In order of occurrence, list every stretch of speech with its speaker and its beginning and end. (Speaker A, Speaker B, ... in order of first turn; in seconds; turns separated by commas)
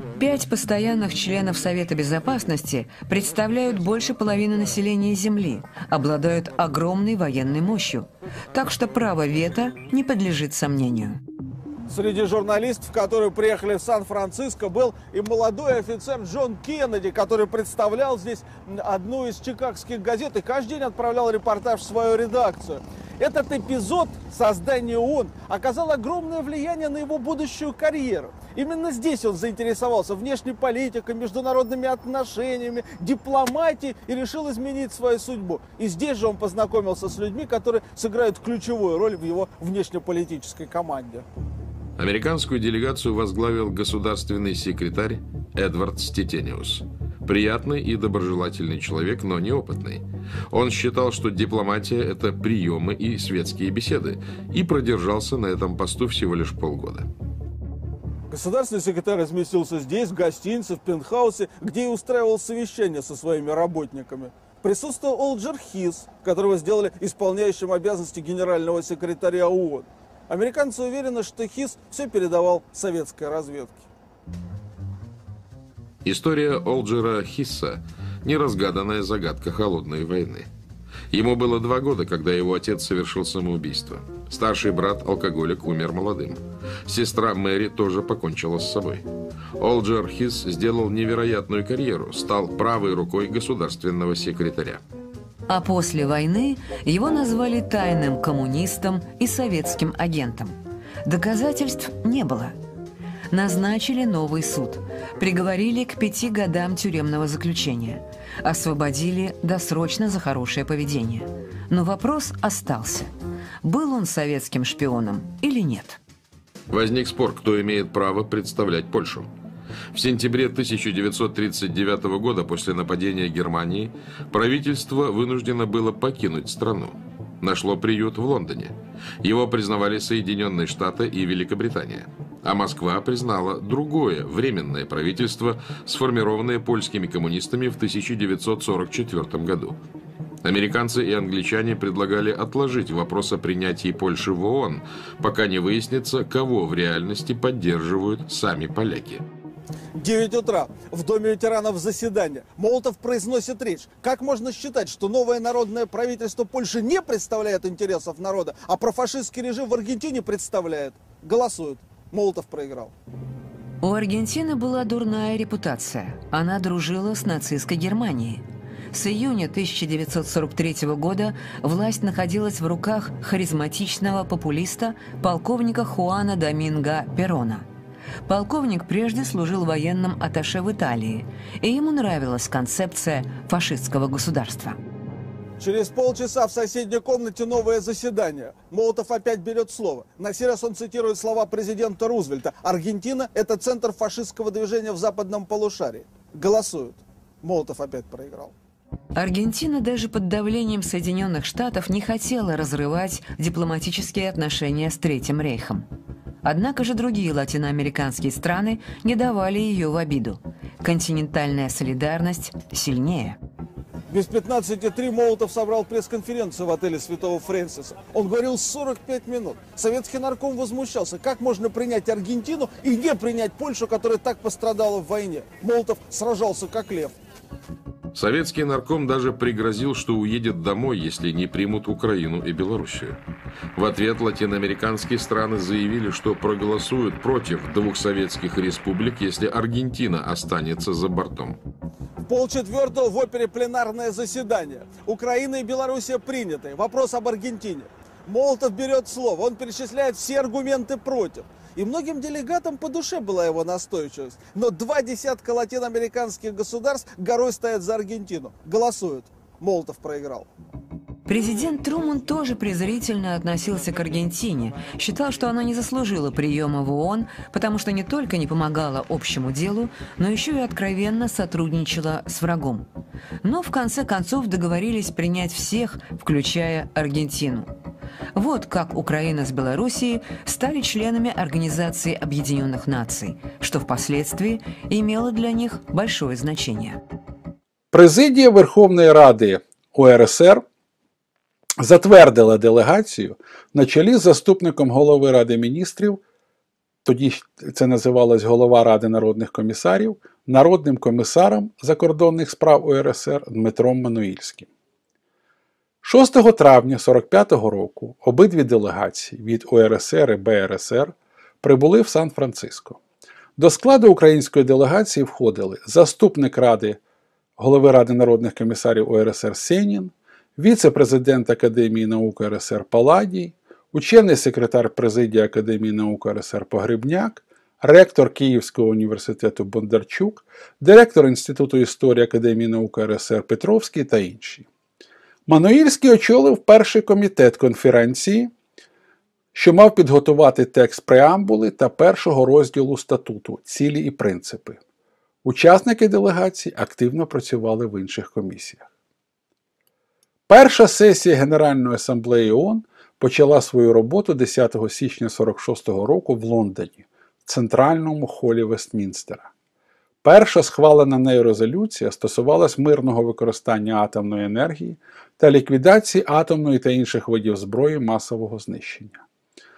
Speaker A: 0.1-11.2, Speaker B: 11.9-41.2, Speaker C: 42.0-57.1, Speaker B: 58.3-73.9, Speaker C: 76.0-80.5, Speaker C: 81.1-89.0, Speaker C: 89.6-94.8, Speaker A: 95.5-102.5, Speaker A: 103.3-116.0, Speaker C: 116.7-119.3, Speaker C: 119.9-139.8, Speaker C: 140.4-149.2, Speaker B: 149.9-162.9, Speaker A: 163.8-177.7, Speaker A: 178.2-184.8, Speaker B: 185.6-198.5, Speaker A: 199.2-205.9, Speaker A: 206.4-213.4, Speaker B: 214.1-227.2, Speaker C: 228.1-233.2, Speaker C: 233.7-241.6, Speaker B: 242.2-260.5, Speaker A: 261.3-272.9, Speaker A: 273.4-277.7, Speaker A: 278.3-287.0, Speaker D: 287.9-290.6, Speaker D: 291.8-296.2, Speaker D: 297.0-304.7, Speaker D: 306.0-313.0, Speaker D: 313.6-317.0, Speaker D: 317.6-334.7, Speaker D: 335.5-338.5, Speaker D: 339.5-344.8, Speaker D: 345.4-348.9, Speaker D: 350.5-359.5, Speaker D: 360.2-369.2